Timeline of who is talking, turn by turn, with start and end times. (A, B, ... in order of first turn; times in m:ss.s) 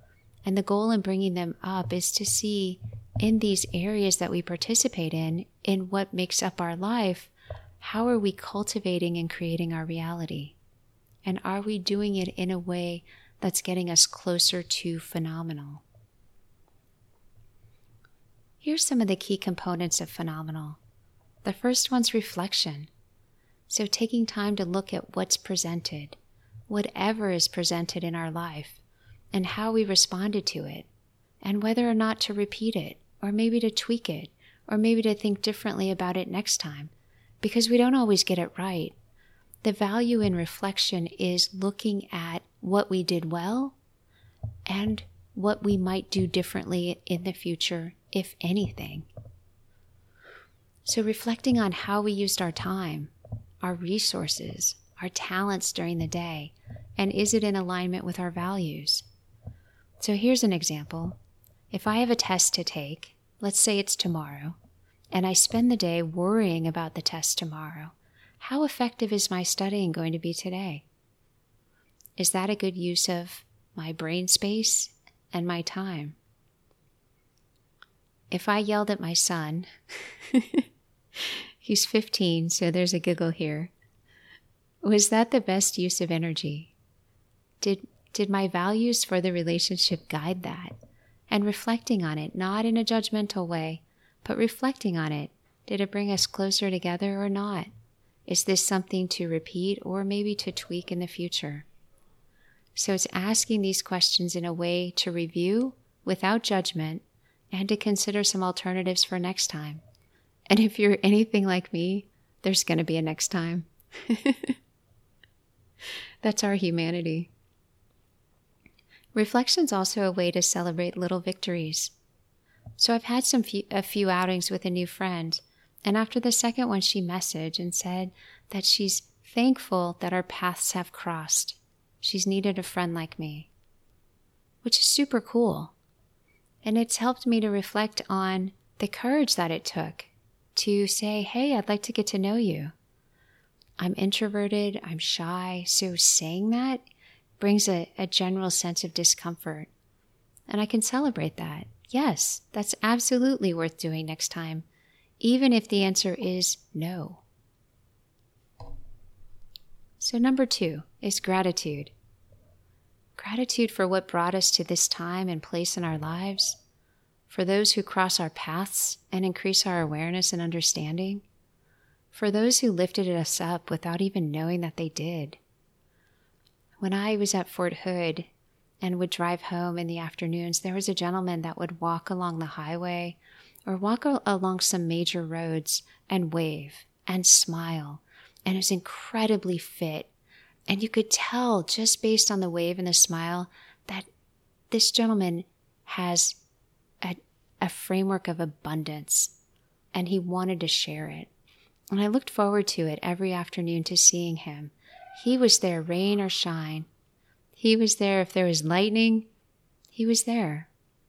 0:00.4-0:10.6 A
0:11.2-0:15.8 A
0:18.6-0:20.8 A
0:21.4-0:22.9 A
0:23.7-0:26.2 A
0:26.7-0:28.8 A
0:29.3-0:30.9 A
0:31.4-0:36.9 A
0:37.4-0:39.0 A
0:39.6-0:43.8 A
0:44.7-0:49.1 A
0:50.8-0:59.0 A
1:00.0-1:01.2 A
1:01.7-1:04.6 A
1:05.1-1:10.8 A
1:12.2-1:16.2 A
1:18.3-1:20.6 A
1:21.2-1:23.7 A
1:24.8-1:26.7 A
1:27.6-1:30.7 A
1:31.3-1:37.7 A
1:38.3-1:41.7 A
1:42.8-1:49.8 A
1:50.5-1:54.6 A
1:56.2-1:57.3 A
1:59.1-2:01.9 A
2:02.8-2:13.5 A
2:14.6-2:15.7 A
2:16.6-2:22.7 A
2:23.8-2:26.8 A
2:27.4-2:29.7 A
2:30.5-2:34.6 A
2:35.2-2:37.2 A
2:40.0-2:41.9 A
2:43.2-2:46.6 A
2:47.3-2:51.2 A
2:52.1-2:55.4 A
2:56.8-2:58.3 A
2:58.8-3:10.1 A
3:10.7-3:14.1 A
3:14.7-3:16.4 A
3:17.0-3:19.3 A
3:19.9-3:21.3 A
3:21.9-3:26.9 A
3:27.5-3:29.3 A
3:29.9-3:30.7 A